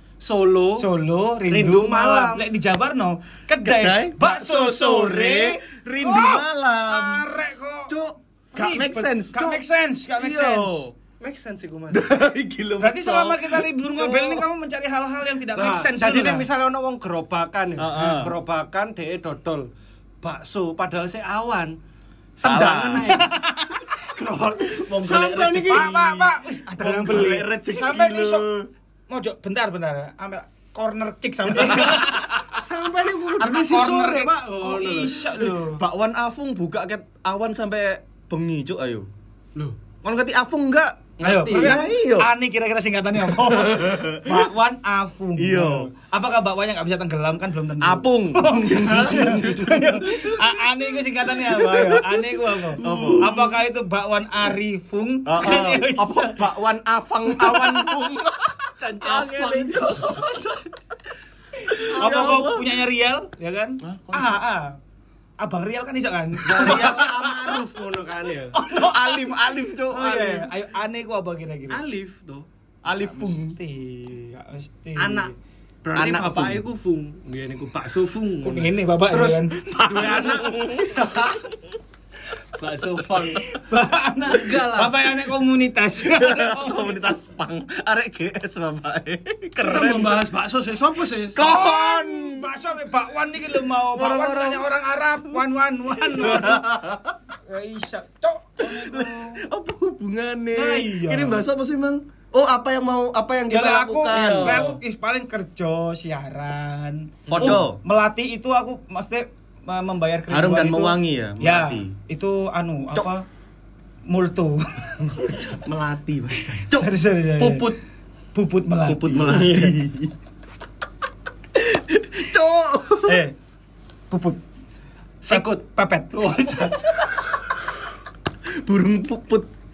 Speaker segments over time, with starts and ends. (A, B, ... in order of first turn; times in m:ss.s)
0:00.2-0:00.9 A
0:00.8-0:07.9 B
0:01.5-0:02.4 A
0:03.6-0:07.3 C
0:07.9-0:09.6 C
0:08.5-0:10.9 B
0:10.2-0:10.9 C
0:11.2-0:12.0 A
0:11.9-0:14.4 C
0:12.8-0:16.5 B
0:15.5-0:19.7 A
0:17.8-0:18.3 C
0:20.2-0:21.8 A
0:22.4-0:23.2 C
0:22.4-0:25.9 A
0:23.1-0:24.0 B
0:24.6-0:28.7 C
0:25.3-0:28.5 B
0:29.1-0:32.4 B
0:31.5-0:32.4 C
0:31.6-0:35.2 A
0:33.3-0:35.8 B
0:35.4-0:39.1 C
0:40.0-0:42.3 C
0:41.2-0:41.8 A
0:41.2-0:56.5 B
0:43.2-0:44.5 C
0:45.4-0:45.9 C
0:47.8-0:50.4 C
0:48.7-0:49.4 A
0:51.5-0:52.2 C
0:52.8-0:53.5 A
0:52.8-0:53.4 C
0:55.2-1:00.3 C
0:57.3-0:58.1 B
0:58.9-1:00.7 A
1:01.6-1:04.8 B
1:01.6-1:02.8 C
1:03.8-1:04.4 C
1:05.4-1:07.1 B
1:06.4-1:07.5 C
1:06.4-1:08.6 A
1:08.5-1:10.5 C
1:08.5-1:11.8 B
1:11.7-1:12.4 A
1:12.8-1:13.6 C
1:12.8-1:15.3 B
1:15.0-1:15.3 A
1:15.8-1:21.5 A
1:16.0-1:16.6 C
1:18.4-1:20.7 B
1:20.1-1:21.0 C
1:22.5-1:23.5 A
1:23.2-1:27.2 B
1:24.3-1:24.9 A
1:26.0-1:30.2 C
1:29.6-1:31.4 A
1:31.3-1:32.5 C
1:31.4-1:36.7 B
1:33.9-1:34.7 C
1:36.1-1:37.2 C
1:37.5-1:39.4 B
1:38.6-1:44.7 C
1:40.5-1:41.4 B
1:43.5-1:53.2 B
1:44.1-1:44.8 A
1:47.3-1:47.6 A
1:47.3-1:47.8 C
1:50.3-1:51.9 C
1:54.1-1:55.1 B
1:55.0-1:57.8 C
1:56.7-1:57.8 B
1:58.3-1:59.7 B
1:58.8-2:00.1 C
2:01.5-2:03.2 C
2:03.0-2:03.3 B
2:04.1-2:04.4 B
2:05.2-2:05.6 A
2:05.3-2:07.0 B
2:06.1-2:06.8 A
2:08.5-2:09.5 C